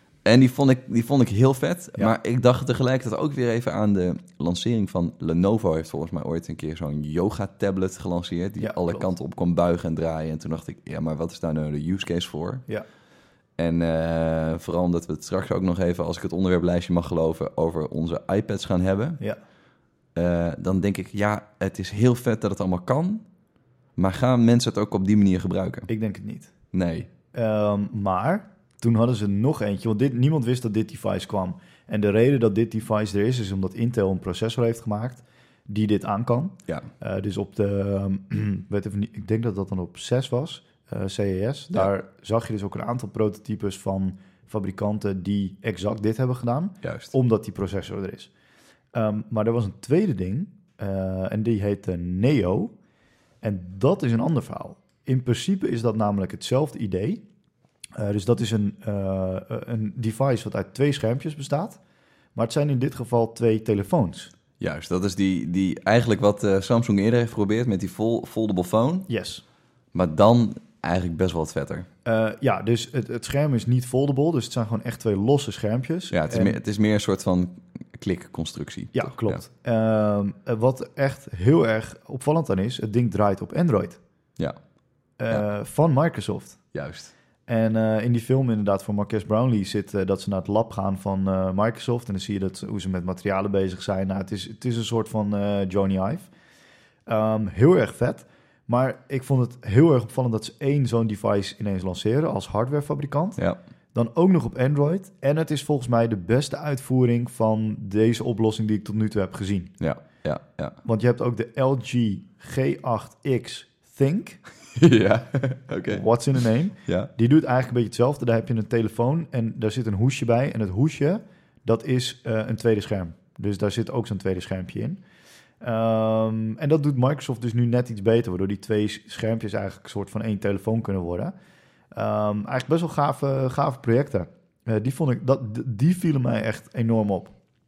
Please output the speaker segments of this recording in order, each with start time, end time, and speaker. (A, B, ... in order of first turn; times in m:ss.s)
0:00.2-0:12.6 A
0:08.6-0:09.1 B
0:13.6-0:19.2 A
0:20.1-0:23.2 A
0:24.0-0:25.9 A
0:25.9-0:26.5 B
0:26.7-0:27.1 A
0:27.3-0:48.3 B
0:46.8-0:47.1 A
0:48.9-0:52.7 B
0:53.4-0:57.2 B
0:58.0-1:01.8 B
1:02.3-1:04.3 B
1:04.6-1:09.1 A
1:09.1-1:09.4 B
1:09.9-1:11.9 A
1:12.0-1:16.6 B
1:16.1-1:19.4 A
1:18.9-1:24.0 B
1:25.2-1:26.6 B
1:26.7-1:27.1 A
1:27.5-1:36.3 B
1:37.1-1:43.4 B
1:43.9-1:49.7 B
1:49.8-1:50.8 A
1:50.8-1:54.4 B
1:54.7-1:56.0 A
1:55.9-2:05.0 B
2:05.6-2:11.3 B
2:11.9-2:17.3 B